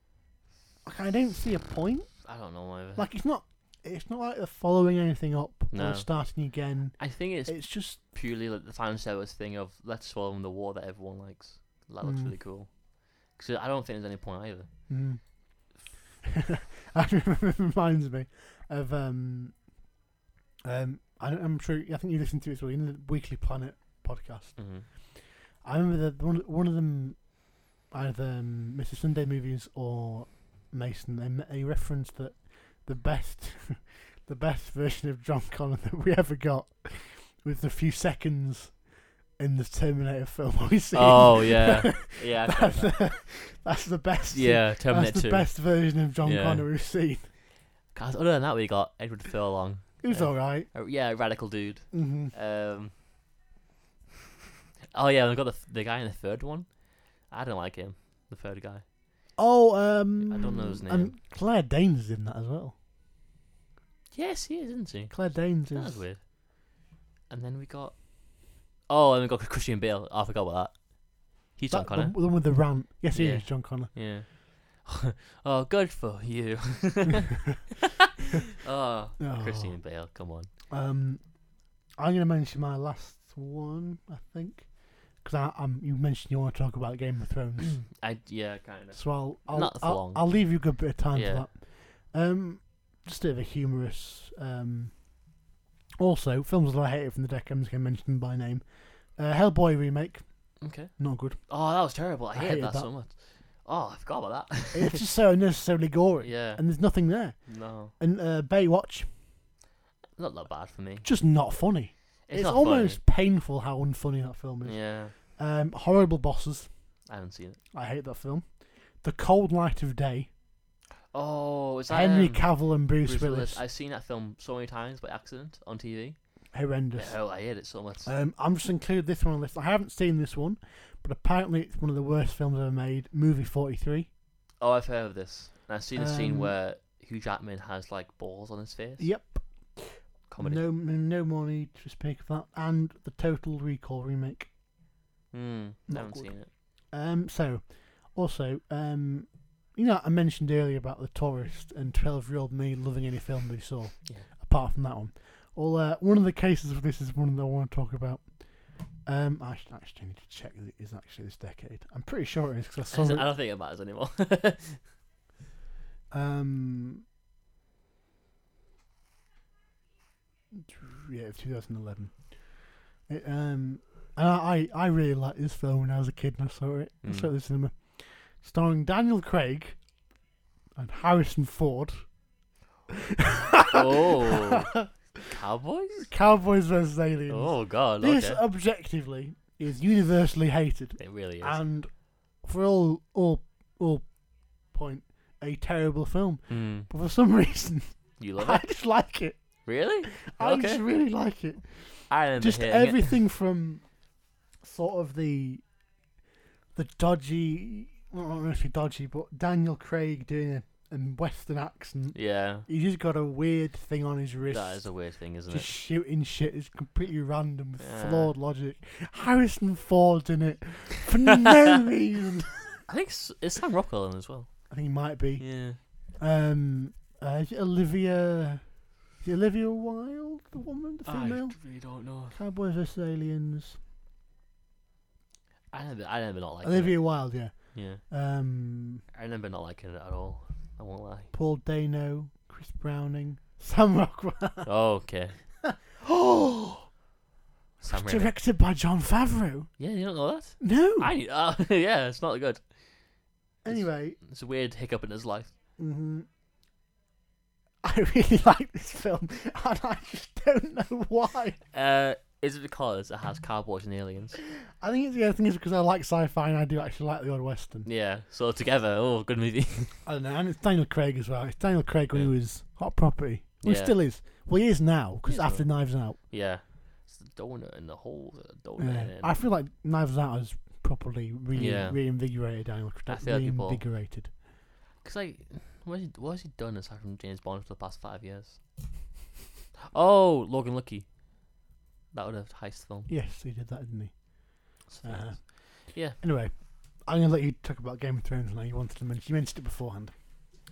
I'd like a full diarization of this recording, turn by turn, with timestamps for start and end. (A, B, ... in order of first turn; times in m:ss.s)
0:00.8-0:02.3 A
0:02.2-0:03.1 B
0:03.0-0:08.0 A
0:05.7-0:14.9 B
0:12.0-0:12.3 A
0:14.9-0:19.7 A
0:20.6-0:38.8 A
0:24.6-0:24.9 B
0:39.4-0:47.3 A
0:40.9-0:43.0 B
0:44.3-0:45.7 B
0:46.2-0:46.6 B
0:47.9-0:53.0 B
0:50.0-0:50.7 A
0:51.9-0:52.3 A
0:54.9-0:58.8 B
0:59.4-1:02.7 A
1:00.2-1:01.1 B
1:04.1-1:12.6 B
1:05.1-1:06.0 A
1:11.7-1:13.9 A
1:13.1-1:17.6 B
1:18.6-1:20.5 B
1:19.2-1:19.8 A
1:20.7-1:21.4 A
1:22.0-1:27.8 A
1:27.8-1:30.5 B
1:28.9-1:35.3 A
1:31.1-1:31.4 B
1:36.0-1:41.4 A
1:40.6-1:45.0 B
1:42.3-1:42.9 A
1:44.7-1:49.1 A
1:46.2-1:47.9 B
1:50.2-1:51.1 B
1:51.0-1:56.8 A
1:52.3-1:53.0 B
1:54.6-1:55.1 B
1:57.1-1:57.6 B
1:57.7-2:00.3 A
2:01.1-2:08.1 B
2:01.9-2:03.6 A
2:06.5-2:14.1 A
2:14.6-2:19.1 B
2:15.9-2:16.5 A
2:19.0-2:24.5 A
2:20.3-2:20.6 B
2:25.3-2:26.5 B
2:25.9-2:43.3 A
2:42.9-2:44.8 B
2:46.1-2:47.0 A
2:50.5-2:52.6 A
2:53.1-2:59.8 A
2:57.0-2:57.3 B
3:00.8-3:02.1 A
3:03.1-3:04.9 A
3:03.7-3:04.8 B
3:05.3-3:06.1 B
3:06.0-3:23.9 A
3:07.3-3:08.4 B
3:11.0-3:11.6 B
3:16.5-3:16.9 B
3:18.2-3:18.6 B
3:19.6-3:20.8 B
3:22.1-3:23.2 B
3:24.6-3:25.6 A
3:26.7-3:42.8 A
3:32.1-3:32.6 B
3:34.5-3:35.7 B
3:37.8-3:38.3 B
3:42.9-3:44.7 B
3:44.7-3:53.8 A
3:45.4-3:45.8 B
3:51.0-3:52.4 B
3:55.7-3:58.0 B
3:56.6-3:59.0 A
3:59.1-4:01.3 B
4:01.3-4:04.7 A
4:04.6-4:05.4 B
4:05.6-4:06.8 A
4:07.8-4:08.3 B
4:07.9-4:09.8 A
4:09.8-4:12.7 B
4:10.6-4:11.1 A
4:13.6-4:14.2 A
4:13.7-4:15.5 B
4:15.8-4:16.2 A
4:17.8-4:21.6 A
4:21.7-4:24.4 B
4:24.8-4:27.9 A
4:27.8-4:30.0 B
4:30.0-4:36.2 A
4:33.6-4:34.0 B
4:35.2-4:39.4 B
4:38.8-4:44.3 A
4:41.5-4:42.3 B
4:43.1-4:43.8 B
4:45.0-4:48.6 B
4:49.9-4:51.2 B
4:52.1-4:53.1 B
4:53.1-5:00.1 A
4:54.9-4:56.2 B